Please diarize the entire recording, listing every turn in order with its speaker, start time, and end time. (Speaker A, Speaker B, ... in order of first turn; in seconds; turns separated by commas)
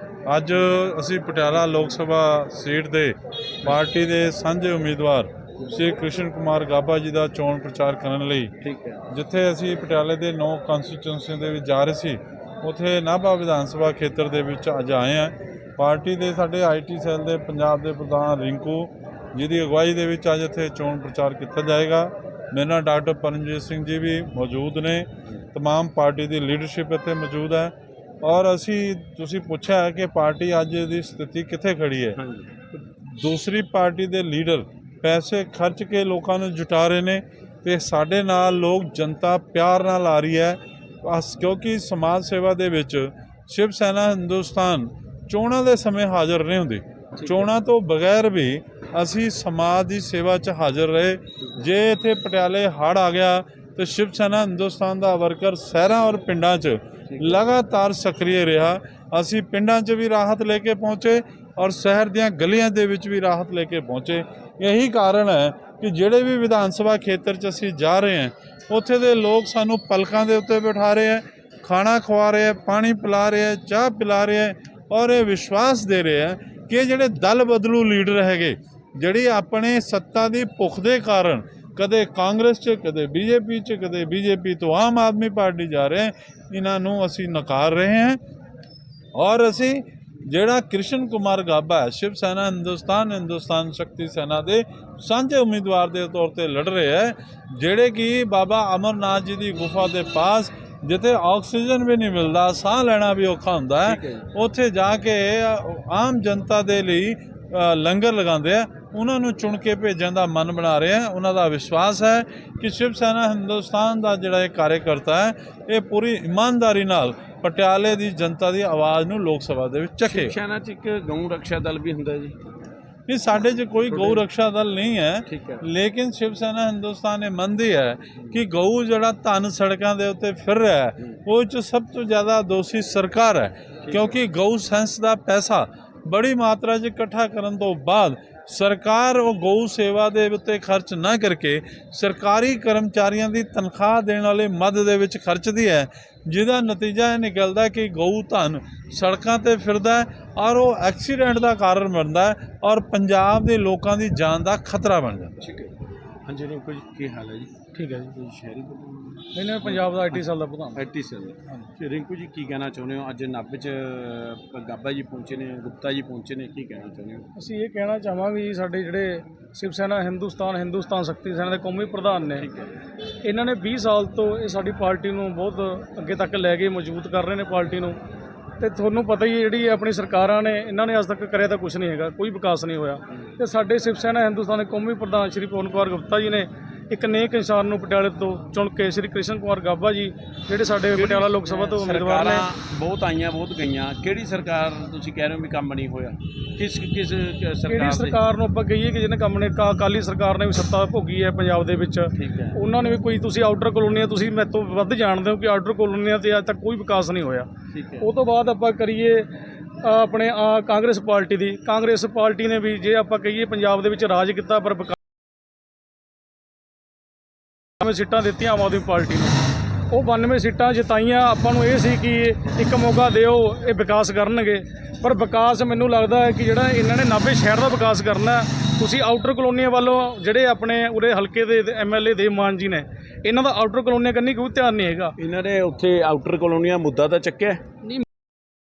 Speaker A: 0.3-8.5, Speaker B: 1.6-2.0, Speaker B: 8.6-9.0, Speaker A: 9.1-32.2, Speaker B: 32.2-32.8, Speaker A: 33.0-88.2, Speaker B: 47.2-47.5, Speaker B: 57.1-57.5, Speaker A: 89.2-120.3, Speaker B: 103.8-104.2, Speaker B: 120.0-122.3, Speaker A: 123.1-155.3, Speaker B: 123.4-124.2, Speaker B: 125.3-125.6, Speaker B: 133.8-134.2, Speaker B: 155.4-155.7, Speaker B: 156.3-160.2, Speaker C: 157.7-158.1, Speaker C: 159.3-160.8, Speaker B: 160.7-167.2, Speaker C: 167.3-172.5, Speaker B: 172.4-172.7, Speaker C: 173.2-178.0, Speaker C: 178.6-192.5, Speaker B: 190.9-198.2, Speaker C: 197.7-207.5, Speaker B: 202.2-202.6, Speaker B: 207.7-208.1, Speaker C: 208.0-209.3, Speaker C: 209.8-215.0, Speaker C: 217.8-235.1, Speaker B: 235.2-237.8